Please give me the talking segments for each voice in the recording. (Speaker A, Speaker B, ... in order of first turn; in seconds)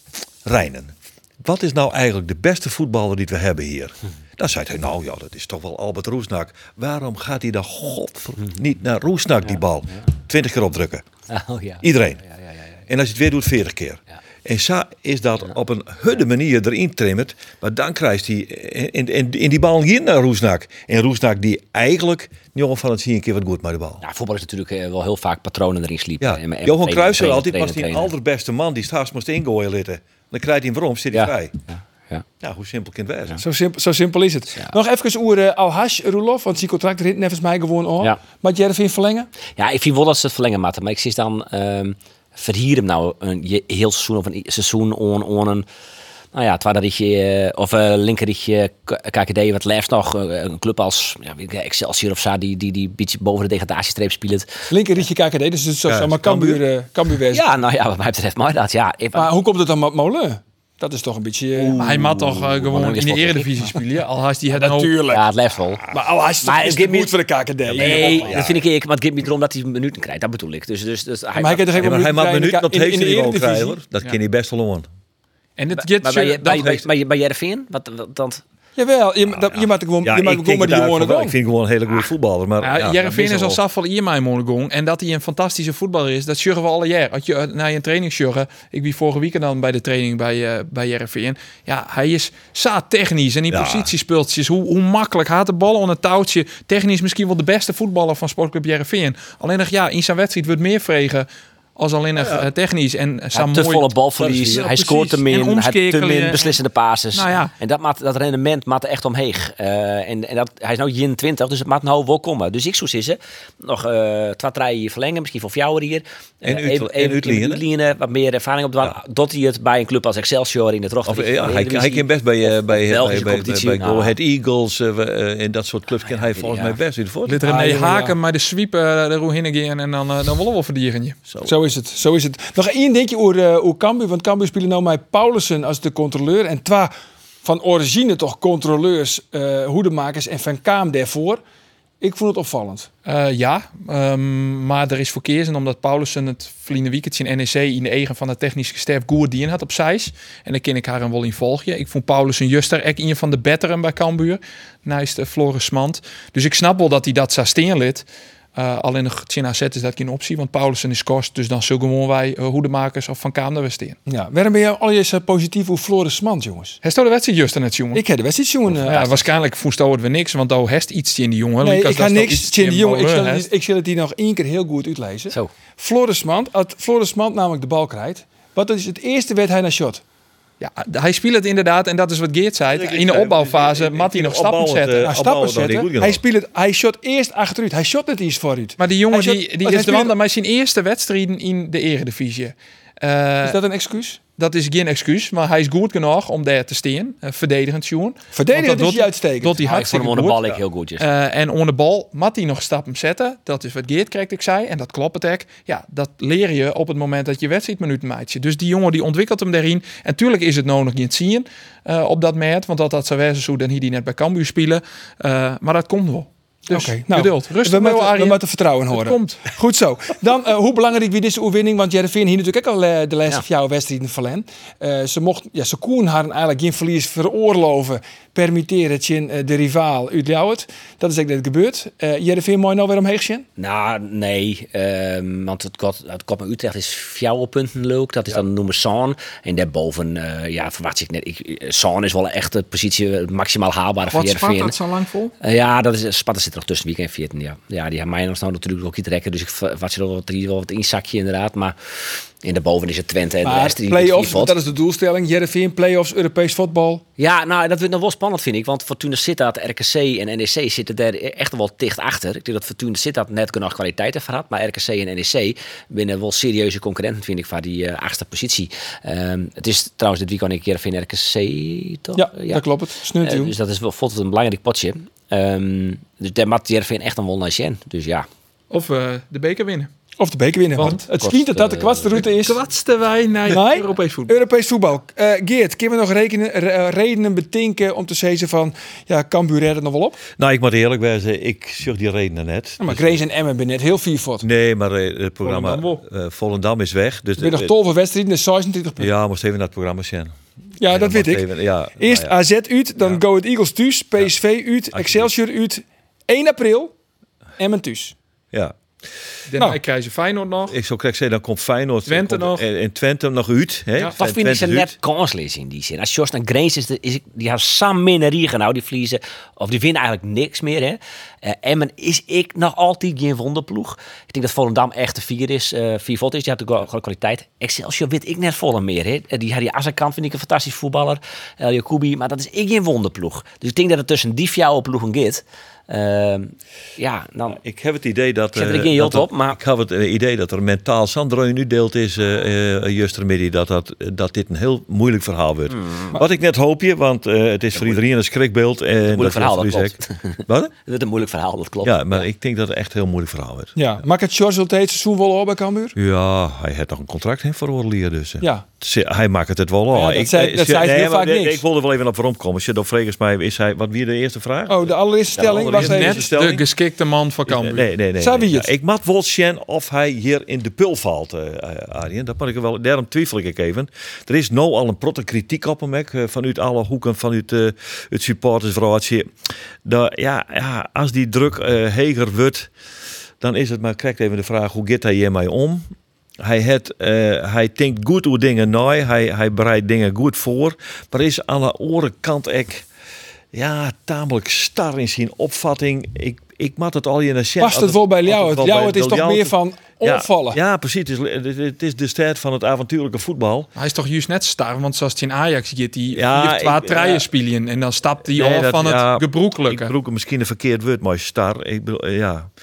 Speaker A: 0.4-11.1, 11.8-12.2, 12.9-24.0, 26.2-31.6, 32.4-33.4, 55.9-56.6, 67.7-68.5, 71.8-74.8, 80.0-83.4, 93.5-93.9, 102.2-102.5, 104.2-104.7, 116.4-117.6, 121.0-127.4, 182.7-186.2, 290.4-293.2, 294.4-297.7, 299.0-302.3, 304.9-305.3, 310.7-314.9, 337.6-350.7, 351.8-353.7, 355.9-366.6, 367.5-379.3, 379.8-382.7, 383.4-385.9, 386.4-392.9, 393.5-403.7, 406.1-407.3, 408.2-412.5
Speaker B: 11.3-12.7, 24.0-28.1, 31.1-32.2, 39.6-45.6, 46.3-54.6, 57.3-59.3, 61.5-63.5, 65.1-65.8, 66.4-67.1, 67.7-71.9, 75.8-78.4, 83.1-83.5, 103.3-124.1, 125.9-126.8, 168.9-169.2, 199.6-201.1, 233.6-244.7, 245.4-254.5, 257.2-272.6, 273.2-278.3, 281.2-282.2, 314.2-337.6, 338.5-339.6, 345.7-346.1, 347.7-348.0, 349.0-352.2
Speaker C: 33.4-39.3, 54.7-57.4, 59.1-61.8, 64.5-65.2, 65.9-68.6, 71.3-73.8, 78.8-81.3, 127.4-128.2, 131.4-136.9, 137.4-141.4, 142.0-142.9, 164.1-166.8, 167.9-169.1, 171.6-180.0, 185.0-190.1, 193.4-194.2, 198.3-199.8, 216.7-233.4, 253.4-257.0, 272.1-273.5, 280.2-282.6, 283.5-290.2, 292.8-294.5, 297.4-299.1, 300.8-301.4, 302.0-306.9, 307.6-308.1, 353.7-355.9, 359.9-361.6, 364.7-366.2, 368.2-368.7, 397.6-400.6
Speaker D: 61.8-65.0, 75.6-76.8, 82.6-101.3, 101.8-106.6, 107.1-107.5, 127.2-131.2, 143.0-164.0, 166.8-168.0, 168.9-173.5, 180.6-185.0, 188.8-193.6, 194.4-200.4, 201.0-219.4, 244.1-245.3, 278.7-279.9, 280.8-281.1, 282.2-284.3, 295.4-296.0, 309.5-310.8, 312.1-312.6, 365.7-367.9, 403.8-409.9